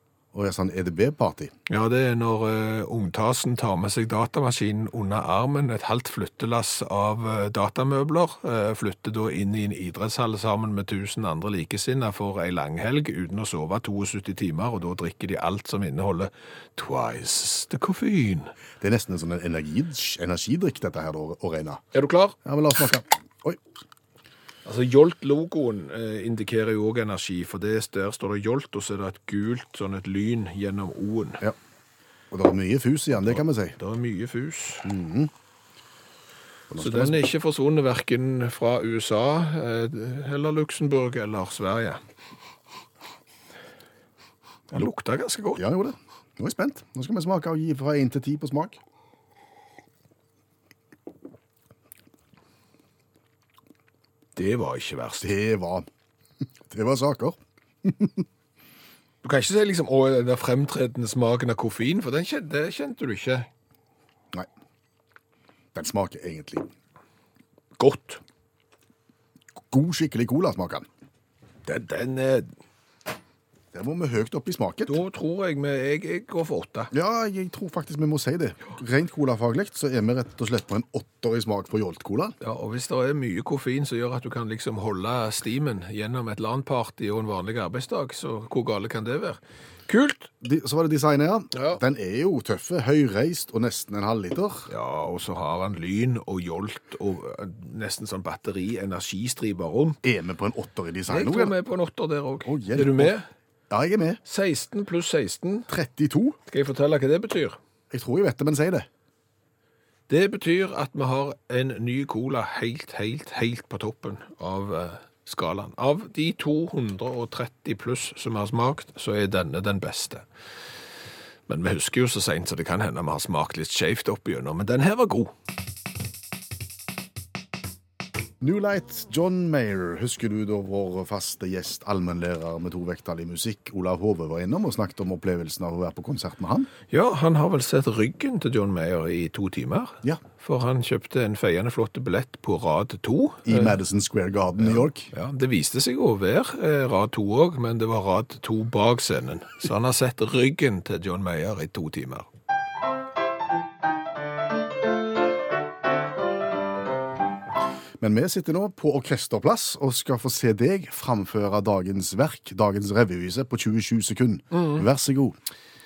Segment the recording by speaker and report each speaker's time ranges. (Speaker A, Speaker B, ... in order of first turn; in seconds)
Speaker A: 0.3-1.5, 18.8-21.8, 22.4-23.6, 32.3-33.8, 34.8-35.3, 36.7-37.3, 45.6-48.8, 55.2-55.9, 56.7-58.2, 65.7-66.7, 69.7-70.9, 73.7-75.0, 76.9-82.3, 90.4-94.7, 100.0-101.5, 102.5-103.2, 103.7-104.2, 105.7-106.4, 107.9-108.9, 128.4-136.7, 143.4-145.1, 158.0-165.3
Speaker B: 1.7-18.5, 21.9-22.4, 24.6-31.4, 33.2-34.9, 36.8-42.0, 44.7-45.6, 54.4-55.3, 59.2-63.5, 67.8-68.2, 71.7-72.5, 74.9-76.9, 82.4-90.3, 91.5-91.8, 94.7-100.0, 101.1-103.3, 104.2-105.7, 106.5-107.6, 110.1-120.2, 121.5-125.3, 136.9-143.8, 144.6-152.3, 164.5-164.9